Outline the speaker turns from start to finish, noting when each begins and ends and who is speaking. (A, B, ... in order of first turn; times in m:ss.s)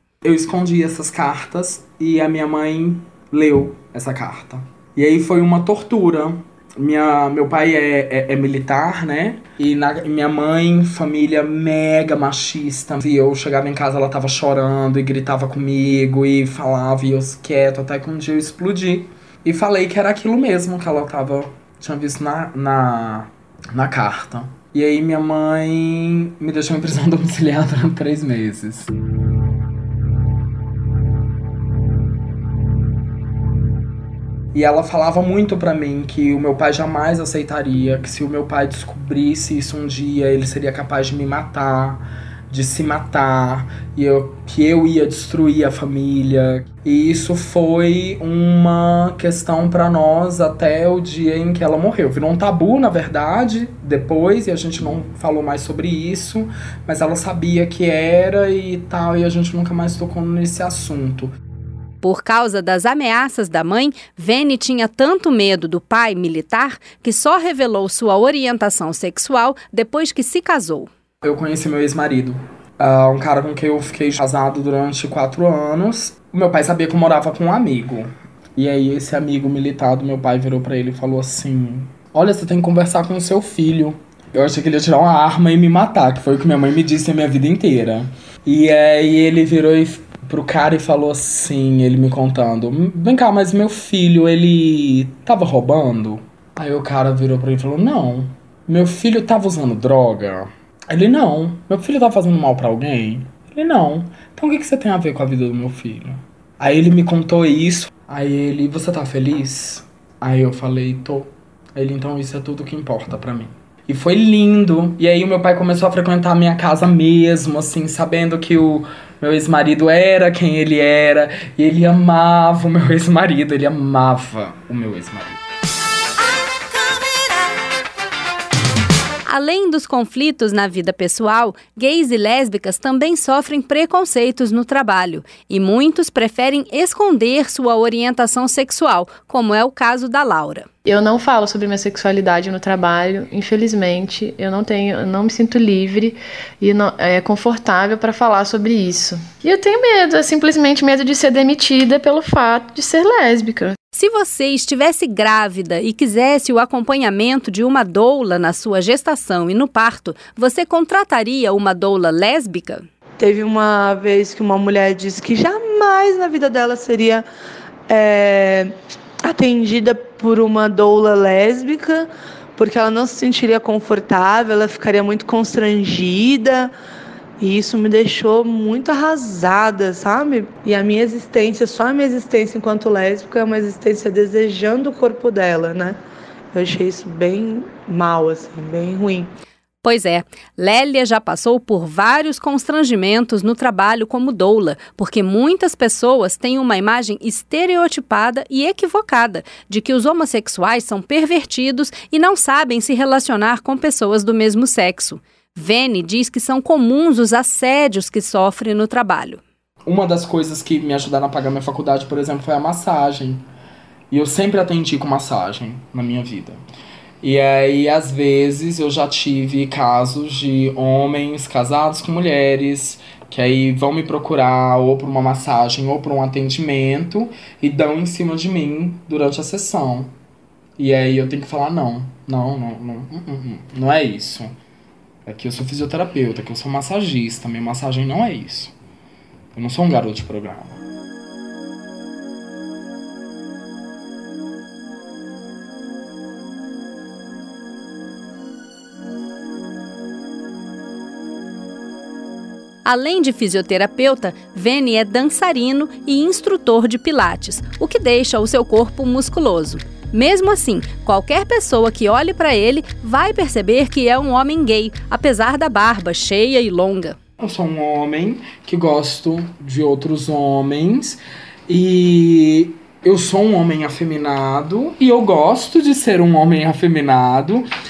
0:00.2-0:28.9 A
0:34.5-1:01.3 A
1:02.0-1:10.9 B
1:11.2-2:05.4 A
2:06.4-2:07.4 B
2:09.3-2:20.7 B
2:20.8-2:33.8 C
2:33.9-2:42.8 B
2:43.2-2:47.2 D
2:47.9-2:48.7 D
2:49.2-2:56.7 D
2:57.4-3:06.0 D
3:06.5-3:09.3 D
3:09.8-3:29.4 B
3:29.8-3:33.4 A
3:34.1-3:36.6 A
3:37.2-3:50.1 A
3:50.8-3:54.5 A
3:55.2-3:58.7 A
3:59.5-4:00.8 A
4:12.8-4:27.2 B
4:27.4-4:37.7 A